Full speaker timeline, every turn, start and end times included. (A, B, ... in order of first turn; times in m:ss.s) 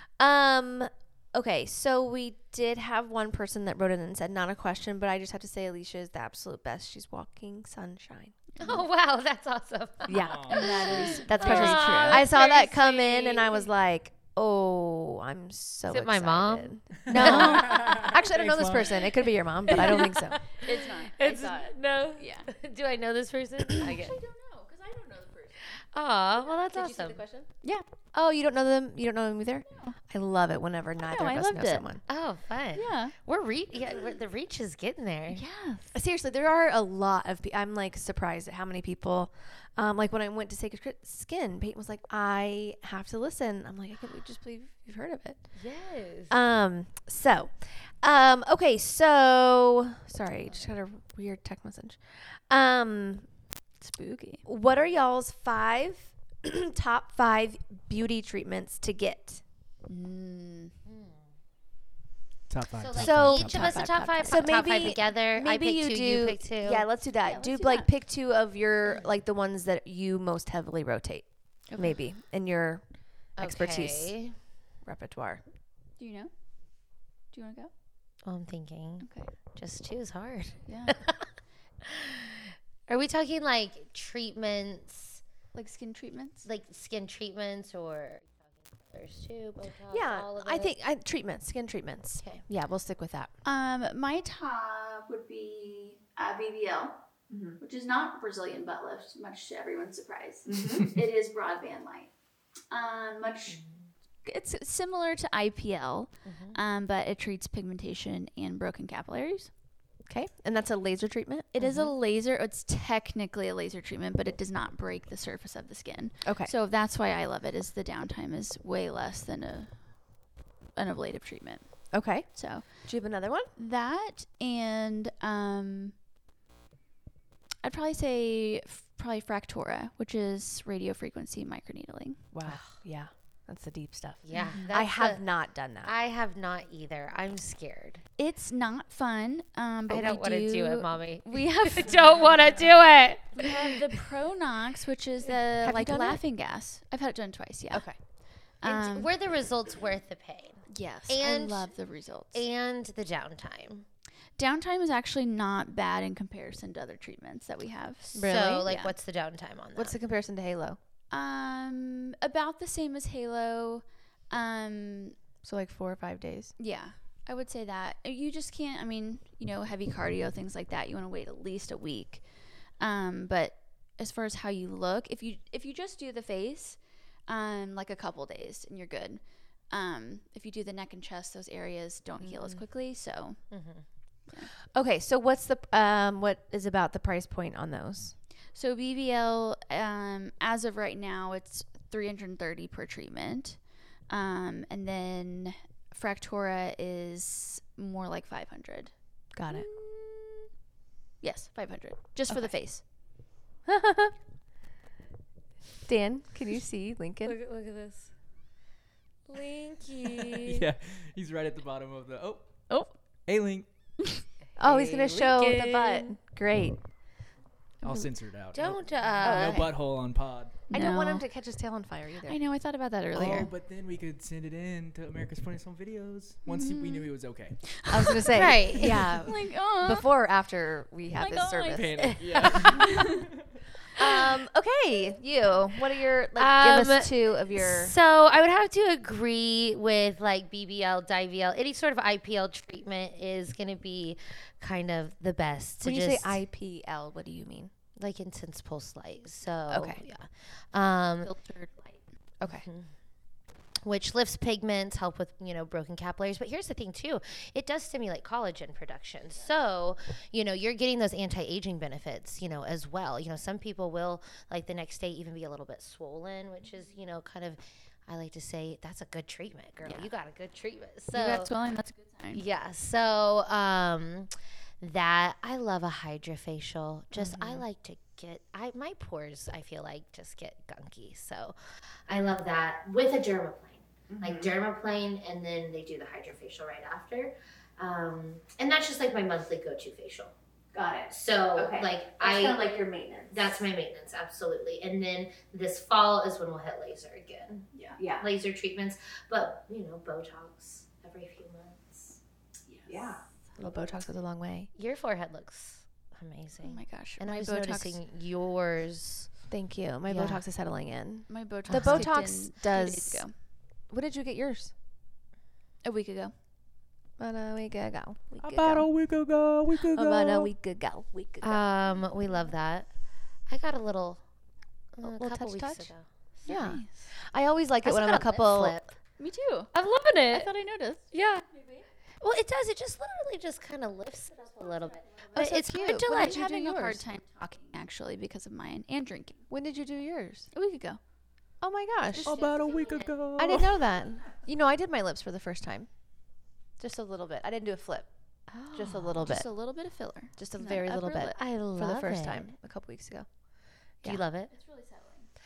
0:00.2-0:08.4 A
0:08.6-0:08.8 B
0:08.6-0:12.3 C
0:10.0-0:20.4 A
0:10.1-0:11.2 D
0:10.5-0:13.7 B
0:15.9-0:18.0 C
0:17.1-0:19.7 D
0:19.7-0:24.2 C
0:20.5-0:22.5 B
0:23.8-0:25.8 B
0:25.9-0:27.2 C
0:28.1-0:32.0 A
0:29.7-0:30.0 B
0:31.0-0:31.9 B
0:32.1-0:35.4 C
0:32.7-0:33.1 B
0:35.3-0:35.9 B
0:35.9-0:45.6 A
0:45.6-0:46.3 C
0:46.3-0:59.4 A
0:53.9-0:54.4 B
0:59.9-1:00.7 B
1:00.8-1:01.3 C
1:02.5-1:03.8 D
1:02.8-1:06.9 C
1:02.9-1:14.3 A
1:07.2-1:07.9 B
1:11.7-1:12.0 B
1:13.4-1:14.4 C
1:14.8-1:15.4 A
1:16.0-1:16.3 B
1:17.3-1:17.7 B
1:18.2-1:21.3 C
1:19.0-1:19.3 B
1:20.6-1:21.0 B
1:21.8-1:25.2 C
1:25.5-1:26.5 B
1:26.4-1:30.7 C
1:29.9-1:33.3 A
1:33.4-1:37.0 B
1:37.6-1:42.1 B
1:40.4-1:40.8 E
1:42.7-1:43.6 B
1:44.2-1:49.5 B
1:46.2-1:46.6 C
1:50.0-1:51.5 A
1:51.5-2:00.2 B
1:51.6-1:51.9 C
1:56.2-1:56.5 A
2:00.7-2:03.0 B
2:01.9-2:03.5 A
2:03.6-2:06.0 B
2:07.6-2:12.2 B
2:12.3-2:15.9 A
2:14.2-2:15.2 C
2:14.3-2:14.7 B
2:15.8-2:18.0 C
2:18.2-2:22.1 B
2:19.9-2:23.7 C
2:23.3-2:27.9 B
2:25.6-2:26.2 A
2:27.7-2:28.0 A
2:28.6-2:29.1 B
2:28.6-2:31.7 C
2:30.7-2:32.4 B
2:32.3-2:33.8 C
2:34.4-2:38.9 B
2:38.1-2:40.0 C
2:38.1-2:38.7 A
2:39.8-2:40.8 A
2:41.1-2:45.2 B
2:45.4-2:46.6 A
2:46.6-3:03.6 B
3:03.5-3:03.8 C
3:04.7-3:08.2 A
3:08.5-3:18.9 B
3:19.3-3:19.7 A
3:19.5-3:20.3 B
3:21.2-3:22.8 B
3:23.6-3:24.1 A
3:25.8-3:27.4 A
3:27.2-3:28.1 C
3:29.3-3:30.7 C
3:30.4-3:32.7 D
3:32.7-3:33.0 B
3:33.2-3:33.7 D
3:34.6-3:36.2 C
3:34.6-3:36.8 A
3:37.8-3:40.6 D
3:38.5-3:39.7 C
3:39.2-3:39.7 A
3:40.7-3:42.4 A
3:40.7-3:41.2 B
3:42.3-3:43.5 B
3:43.2-3:43.5 A
3:43.2-3:47.8 D
3:46.4-3:47.1 B
3:47.6-3:50.1 B
3:47.9-3:52.7 A
3:48.3-3:49.2 C
3:51.1-3:53.2 B
3:51.7-3:53.2 D
3:52.3-3:52.7 C
3:54.0-3:57.9 A
3:56.4-4:06.4 C
4:05.8-4:07.7 A
4:08.0-4:11.3 C
4:09.7-4:10.0 A
4:11.2-4:12.0 B
4:12.4-4:12.7 A
4:13.8-4:31.5 C
4:31.1-4:32.4 B
4:32.3-4:50.3 C
4:37.2-4:37.6 A
4:44.1-4:44.5 E
4:50.7-4:53.3 E
4:51.1-4:52.7 C
4:53.3-5:02.2 C
4:58.0-4:58.2 E
5:02.7-5:03.0 B
5:02.9-5:03.2 E
5:03.6-5:04.7 A
5:04.7-5:09.3 C
5:06.6-5:08.0 B
5:09.5-5:13.2 A
5:10.0-5:10.4 C
5:11.3-5:13.3 B
5:11.7-5:12.1 C
5:13.9-5:14.7 A
5:15.8-5:16.3 B
5:17.2-5:18.9 A
5:18.4-5:20.5 D
5:19.9-5:21.7 A
5:21.4-5:22.9 C
5:23.5-5:24.2 C
5:24.9-5:26.5 C
5:25.0-5:25.9 A
5:26.4-5:27.0 B
5:26.4-5:28.8 A
5:27.8-5:28.9 C
5:29.2-5:29.7 B
5:29.7-5:30.5 C
5:30.3-5:31.8 B
5:31.1-5:31.4 C
5:32.2-5:36.4 C
5:35.1-5:39.4 B
5:35.4-5:37.0 A
5:39.5-5:40.5 A
5:40.5-5:41.0 B
5:41.6-5:42.4 A
5:42.1-5:42.9 B
5:42.2-5:43.9 D
5:43.3-5:45.9 A
5:46.8-5:48.1 A
5:48.5-5:49.3 C
5:48.7-5:49.5 A
5:49.2-5:51.4 B
5:50.4-5:53.3 A
5:51.3-5:52.5 C
5:54.0-5:54.5 C
5:54.5-5:55.3 B